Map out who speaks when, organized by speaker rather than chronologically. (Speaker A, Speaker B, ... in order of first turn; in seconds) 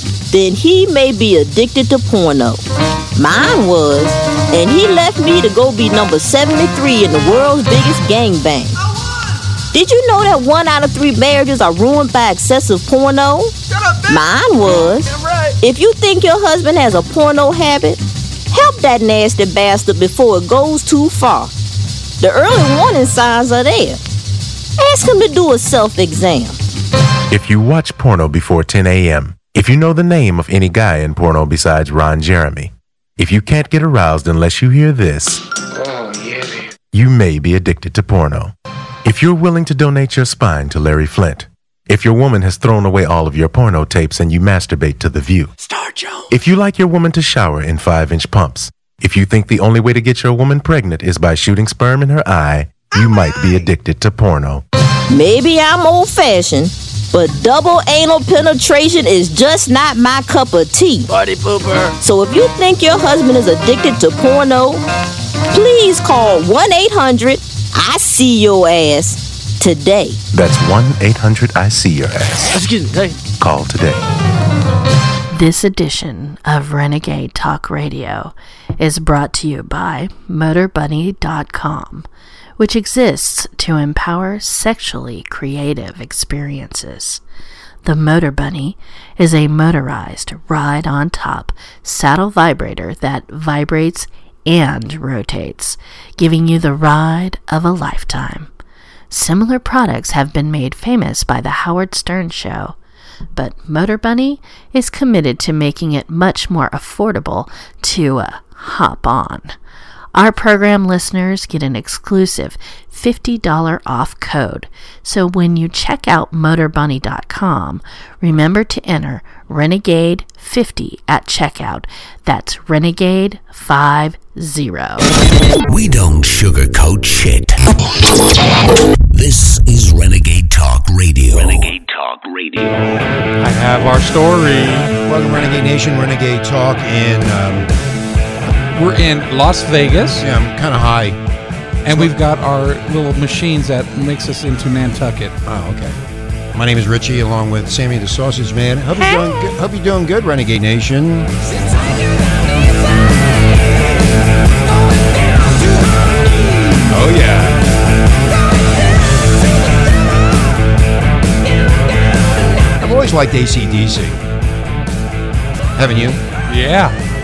Speaker A: 0.3-2.6, 3.1-8.8, 9.7-21.5, 22.2-24.0, 24.8-26.6, 55.1-61.1, 62.0-64.8, 65.5-70.2
Speaker B: 27.3-35.4, 36.9-38.5, 39.0-45.5, 46.3-54.6, 70.3-72.6, 73.4-74.0
Speaker C: 36.1-36.6, 45.6-46.2, 61.1-61.9, 72.5-73.2
Speaker D: 75.3-82.1, 82.6-87.2, 87.8-98.5, 99.1-102.8, 103.3-109.5, 110.1-125.1
Speaker E: 125.6-127.7, 129.1-131.8
Speaker F: 133.4-134.9, 138.5-140.3, 141.8-145.3, 166.5-166.9
Speaker G: 135.1-137.7, 140.2-141.2, 141.8-142.1, 145.4-146.0, 146.5-151.3, 156.7-157.7, 162.8-164.2, 165.8-166.2